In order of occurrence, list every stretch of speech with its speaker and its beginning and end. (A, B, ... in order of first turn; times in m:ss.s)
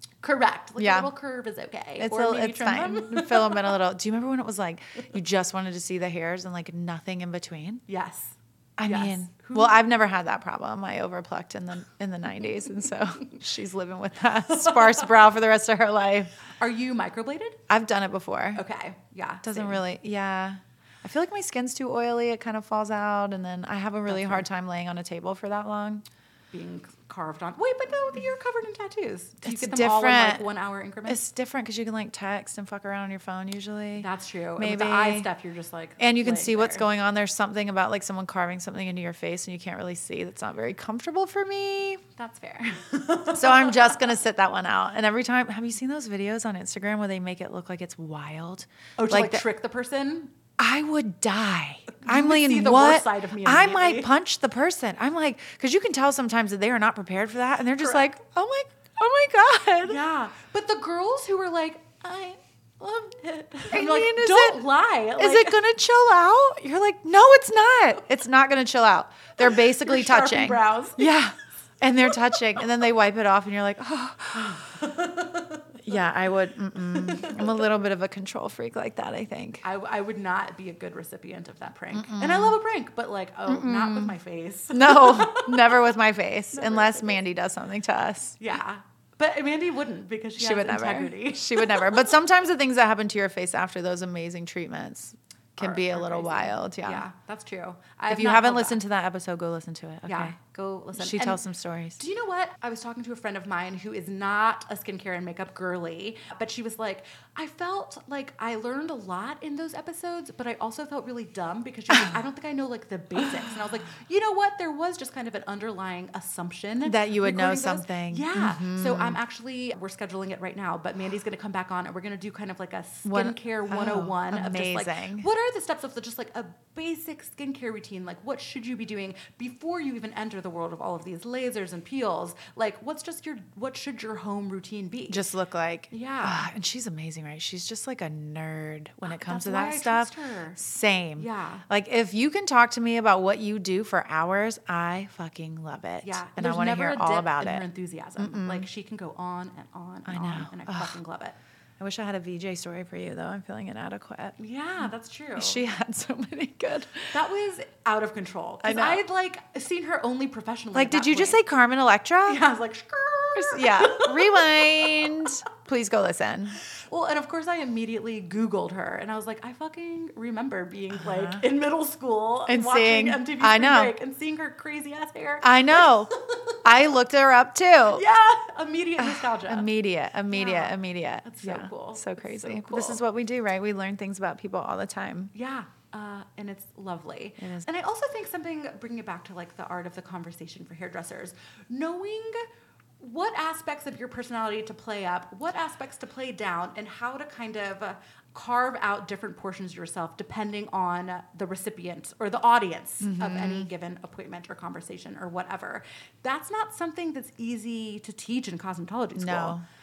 0:00.2-0:03.8 A
0:00.8-0:01.1 B
0:02.0-0:07.8 B
0:07.9-0:09.8 A
0:08.8-0:16.3 B
0:14.5-0:15.1 A
0:16.6-0:17.6 A
0:17.7-0:18.6 B
0:18.5-0:19.8 A
0:19.4-0:26.0 B
0:24.1-0:24.4 A
0:26.5-0:31.2 A
0:29.4-0:30.4 B
0:31.1-0:35.3 B
0:34.0-0:36.8 A
0:36.0-0:42.0 B
0:42.2-0:44.0 A
0:43.3-0:49.4 B
0:49.0-0:50.3 A
0:50.6-1:00.0 B
0:51.9-0:54.1 A
0:57.8-0:58.1 A
0:59.8-1:05.6 A
1:03.7-1:14.8 B
1:09.4-1:11.2 A
1:14.4-1:15.7 A
1:15.8-1:19.6 B
1:16.9-1:17.6 A
1:19.6-1:25.9 A
1:21.9-1:22.6 B
1:23.5-1:24.2 B
1:24.7-1:28.4 B
1:26.5-1:27.2 A
1:28.4-1:32.1 A
1:30.4-1:37.0 B
1:35.6-1:38.8 A
1:38.1-1:40.3 B
1:40.1-1:41.4 A
1:41.0-1:42.0 B
1:42.0-2:15.2 A
1:56.8-1:59.2 B
2:03.0-2:05.3 B
2:15.1-2:27.6 B
2:15.9-2:16.5 A
2:19.0-2:20.6 A
2:21.2-2:21.6 A
2:26.0-2:31.4 A
2:28.2-2:28.7 B
2:30.0-2:31.0 B
2:31.8-2:37.1 B
2:34.4-2:35.6 A
2:37.1-2:41.4 A
2:38.6-2:39.0 B
2:40.7-2:42.4 B
2:42.2-2:45.3 A
2:43.4-2:46.6 B
2:46.8-2:56.7 A
2:50.9-2:51.4 B
2:52.5-2:53.9 B
2:55.4-2:58.0 B
2:57.9-2:59.7 A
2:59.0-3:05.3 B
3:00.3-3:03.0 A
3:05.3-3:12.4 A
3:07.4-3:07.6 B
3:13.0-3:29.6 A
3:23.0-3:23.7 B
3:29.1-3:29.6 B